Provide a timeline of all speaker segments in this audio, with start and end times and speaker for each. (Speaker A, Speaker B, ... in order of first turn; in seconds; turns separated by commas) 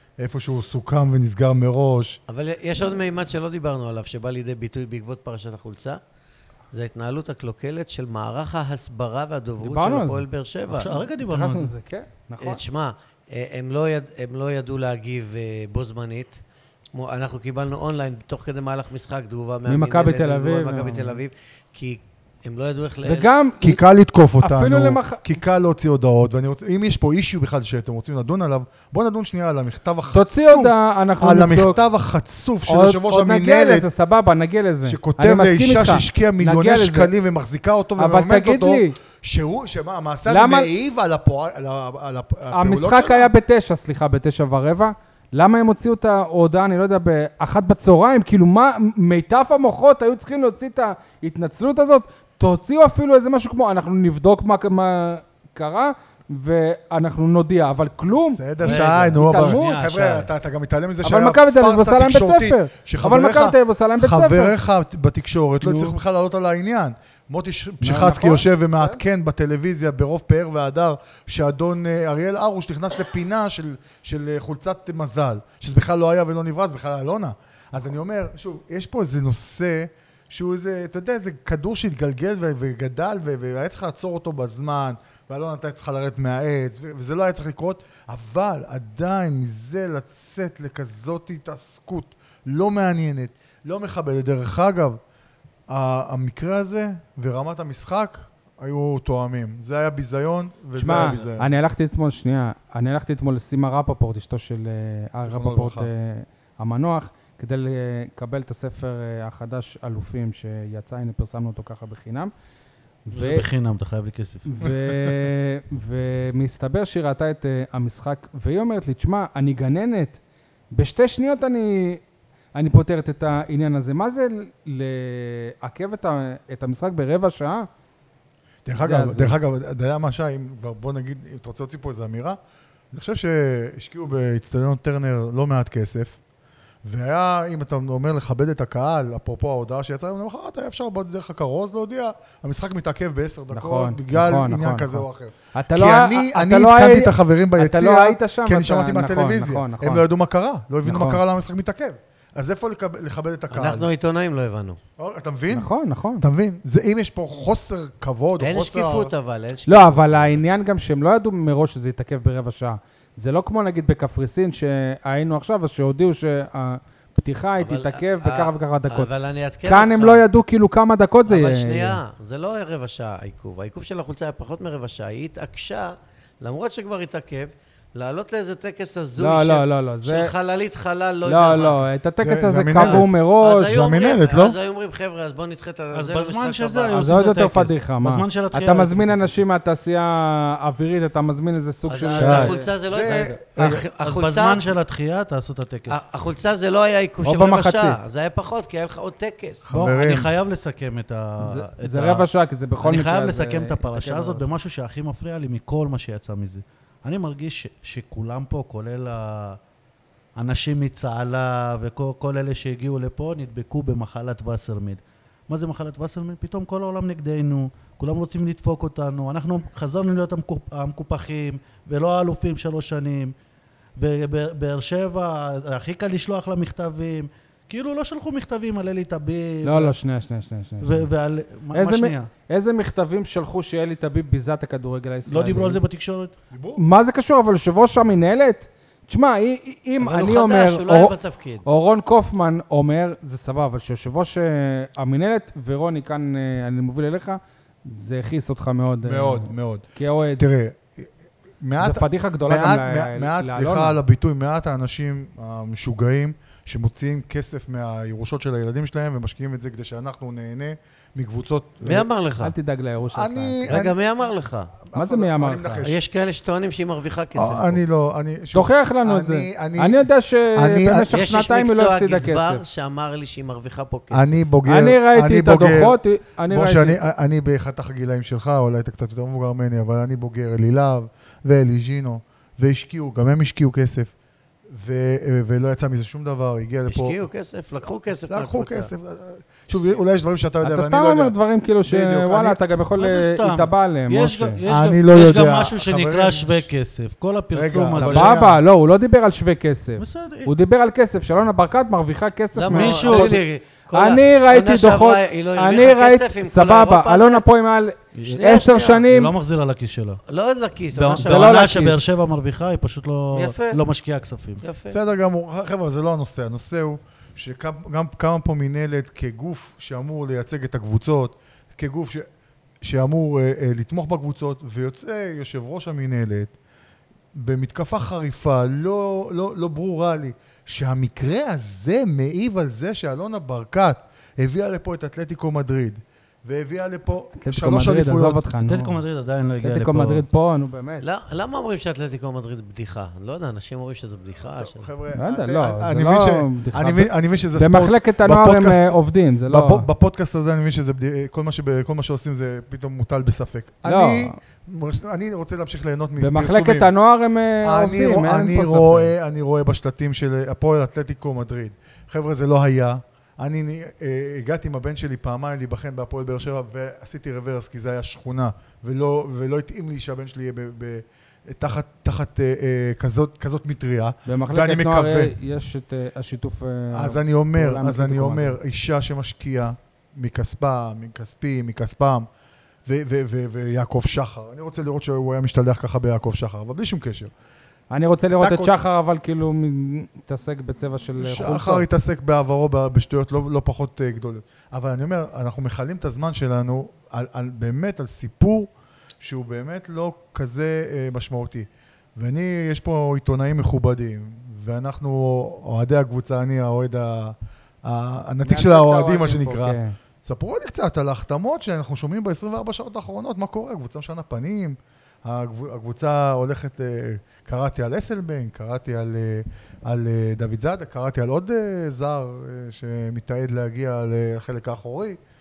Speaker A: 0.2-2.2, Speaker B: 2.3-6.0, Speaker B: 6.7-11.0, Speaker C: 9.6-10.2, Speaker D: 10.7-11.7, Speaker C: 11.2-12.6, Speaker B: 12.4-16.4, Speaker B: 16.9-23.3, Speaker C: 19.7-21.2, Speaker C: 23.0-23.8, Speaker A: 23.6-33.9, Speaker C: 24.4-25.2, Speaker C: 30.1-31.8, Speaker C: 32.7-37.1, Speaker A: 34.8-43.3, Speaker C: 38.0-38.9, Speaker C: 40.3-40.7, Speaker C: 42.5-59.8, Speaker A: 58.1-95.0, Speaker D: 58.6-60.3, Speaker C: 61.0-64.5, Speaker C: 65.6-66.0, Speaker C: 67.8-69.0, Speaker A: 95.7-101.5, Speaker C: 100.7-112.3, Speaker A: 105.2-105.9, Speaker C: 113.0-113.5, Speaker D: 113.1-114.5, Speaker C: 114.5-120.2, Speaker A: 114.6-115.2, Speaker C: 120.7-122.0, Speaker C: 122.5-127.7, Speaker A: 128.6-132.4, Speaker C: 128.8-129.4, Speaker A: 132.9-136.2, Speaker A: 136.8-153.9, Speaker C: 143.5-150.0, Speaker C: 150.8-151.2, Speaker B: 153.5-154.8, Speaker A: 155.0-159.1, Speaker C: 155.5-156.2, Speaker B: 158.4-160.4, Speaker C: 159.7-169.1, Speaker B: 167.6-170.2, Speaker C: 169.6-172.0, Speaker B: 171.3-181.8, Speaker C: 179.2-180.3, Speaker C: 181.2-183.7, Speaker A: 182.2-183.1, Speaker B: 182.8-186.9, Speaker A: 183.7-184.6, Speaker D: 185.9-189.5, Speaker C: 186.9-192.7, Speaker B: 191.9-194.7, Speaker D: 192.2-192.5, Speaker A: 192.8-193.8, Speaker D: 193.6-196.0, Speaker B: 195.9-199.6, Speaker C: 197.2-198.0, Speaker A: 199.6-200.3, Speaker D: 199.7-202.3, Speaker C: 201.4-204.5, Speaker D: 202.8-209.6, Speaker D: 210.3-223.3, Speaker D: 224.0-229.9, Speaker C: 229.6-231.1, Speaker D: 230.8-232.3, Speaker C: 231.7-235.8, Speaker D: 235.3-236.3, Speaker A: 236.5-236.8, Speaker C: 236.8-241.1, Speaker B: 240.0-241.7, Speaker C: 241.6-250.4, Speaker A: 249.0-262.1, Speaker C: 251.8-254.0, Speaker B: 261.8-262.5, Speaker C: 262.4-263.7, Speaker A: 263.1-263.9, Speaker B: 263.7-264.7, Speaker A: 264.8-266.0, Speaker C: 264.9-265.8, Speaker B: 265.8-267.8, Speaker A: 267.4-271.1, Speaker C: 268.5-272.6, Speaker B: 271.1-274.4, Speaker A: 274.1-284.1, Speaker C: 274.6-277.0, Speaker A: 284.7-287.2, Speaker B: 286.9-288.9, Speaker A: 288.3-292.6, Speaker C: 290.6-294.6, Speaker D: 293.0-298.4, Speaker A: 294.6-296.7, Speaker A: 297.5-298.6, Speaker C: 297.9-309.3, Speaker D: 300.0-300.5, Speaker B: 302.5-307.4, Speaker D: 302.7-303.4, Speaker B: 308.2-309.0, Speaker D: 309.1-310.2, Speaker B: 310.3-311.8, Speaker D: 310.9-314.6, Speaker C: 311.2-312.0, Speaker B: 313.3-313.8, Speaker B: 314.6-315.0, Speaker A: 314.9-322.3, Speaker A: 322.8-326.6, Speaker A: 327.3-338.4, Speaker C: 337.4-339.0, Speaker D: 338.6-340.2, Speaker C: 339.6-341.0, Speaker B: 341.0-344.9, Speaker A: 344.4-348.9, Speaker C: 345.2-349.9, Speaker A: 349.5-356.9, Speaker C: 353.8-354.4, Speaker C: 356.2-359.1, Speaker A: 357.6-375.3, Speaker C: 374.3-378.6, Speaker A: 376.9-382.3, Speaker A: 382.8-387.3, Speaker C: 387.9-391.9, Speaker A: 388.3-388.8, Speaker A: 391.2-425.2, Speaker C: 408.4-409.9